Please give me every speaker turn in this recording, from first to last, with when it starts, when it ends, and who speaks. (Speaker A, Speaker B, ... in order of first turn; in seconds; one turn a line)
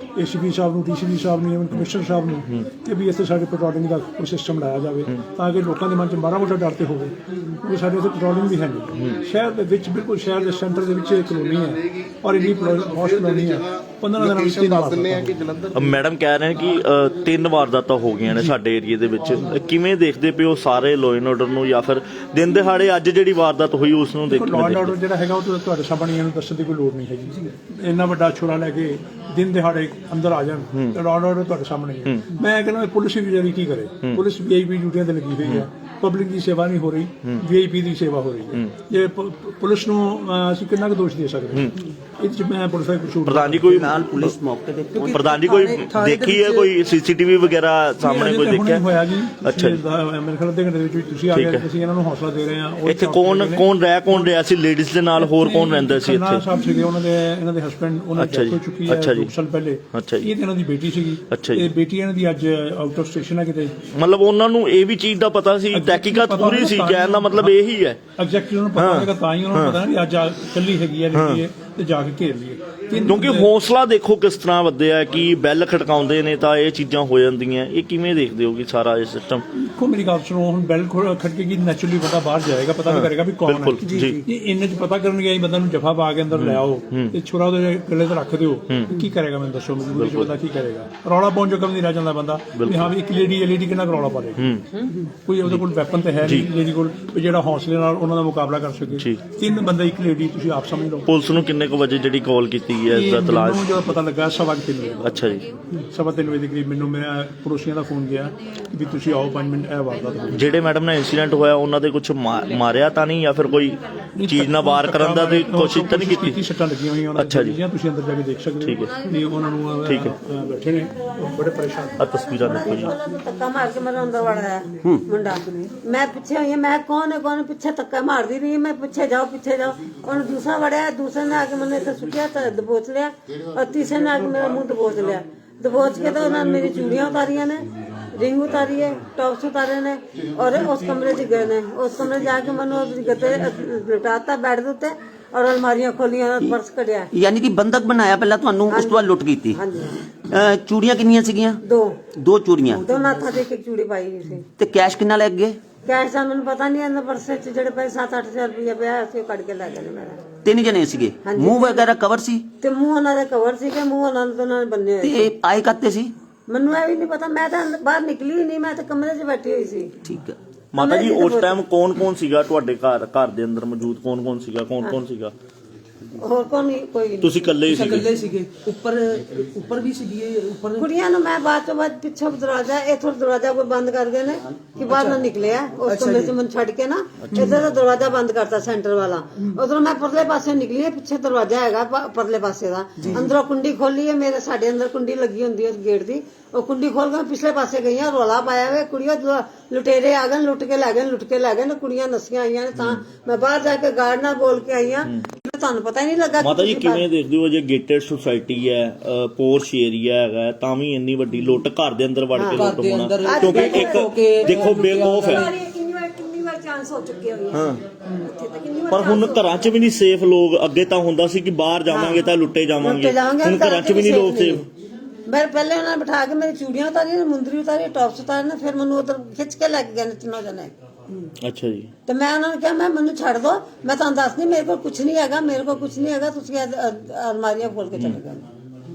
Speaker A: 0.1-15.6
Speaker B: 15.7-25.0
Speaker A: 18.3-18.6
Speaker A: 24.3-43.9
Speaker B: 30.7-31.0
Speaker B: 43.2-44.3
Speaker C: 43.5-45.2
Speaker D: 45.0-46.7
Speaker B: 45.1-48.8
Speaker A: 48.0-54.3
Speaker B: 49.4-49.8
Speaker B: 51.3-51.6
Speaker B: 52.9-56.5
Speaker A: 55.2-63.8
Speaker B: 58.2-59.3
Speaker B: 59.9-60.3
Speaker B: 61.3-61.7
Speaker B: 64.0-68.0
Speaker A: 65.7-67.6
Speaker A: 68.2-73.5
Speaker B: 68.8-69.8
Speaker B: 71.1-71.4
Speaker B: 73.0-79.5
Speaker A: 79.5-101.1
Speaker B: 82.9-84.2
Speaker B: 86.3-87.2
Speaker B: 90.0-90.3
Speaker B: 92.6-92.9
Speaker B: 94.4-94.7
Speaker B: 98.9-99.2
Speaker B: 101.1-104.0
Speaker A: 102.9-105.2
Speaker B: 105.0-105.5
Speaker A: 105.7-110.5
Speaker B: 110.3-116.4
Speaker A: 114.2-122.0
Speaker B: 117.2-117.6
Speaker B: 118.6-118.9
Speaker B: 119.8-120.1
Speaker B: 122.0-123.0
Speaker E: 122.5-147.1
Speaker C: 147.1-149.6
Speaker E: 148.7-150.0
Speaker C: 150.3-151.6
Speaker E: 151.7-152.0
Speaker C: 152.1-152.9
Speaker E: 152.7-154.4
Speaker C: 154.6-155.6
Speaker E: 155.8-160.2
Speaker C: 160.4-162.5
Speaker E: 161.2-161.9
Speaker E: 162.6-165.3
Speaker C: 165.0-166.1
Speaker E: 166.5-169.9
Speaker C: 170.0-170.4
Speaker B: 170.7-175.3
Speaker E: 170.8-171.6
Speaker E: 176.2-177.4
Speaker B: 177.2-178.1
Speaker D: 177.7-180.8
Speaker E: 180.8-207.1
Speaker D: 185.9-186.3
Speaker B: 202.8-203.0
Speaker B: 206.4-215.5
Speaker E: 212.3-217.6
Speaker D: 212.6-215.2
Speaker B: 217.5-217.8
Speaker B: 218.9-224.7
Speaker E: 221.9-222.3
Speaker E: 222.8-224.7
Speaker E: 225.3-230.7
Speaker B: 231.4-231.9
Speaker E: 232.1-238.5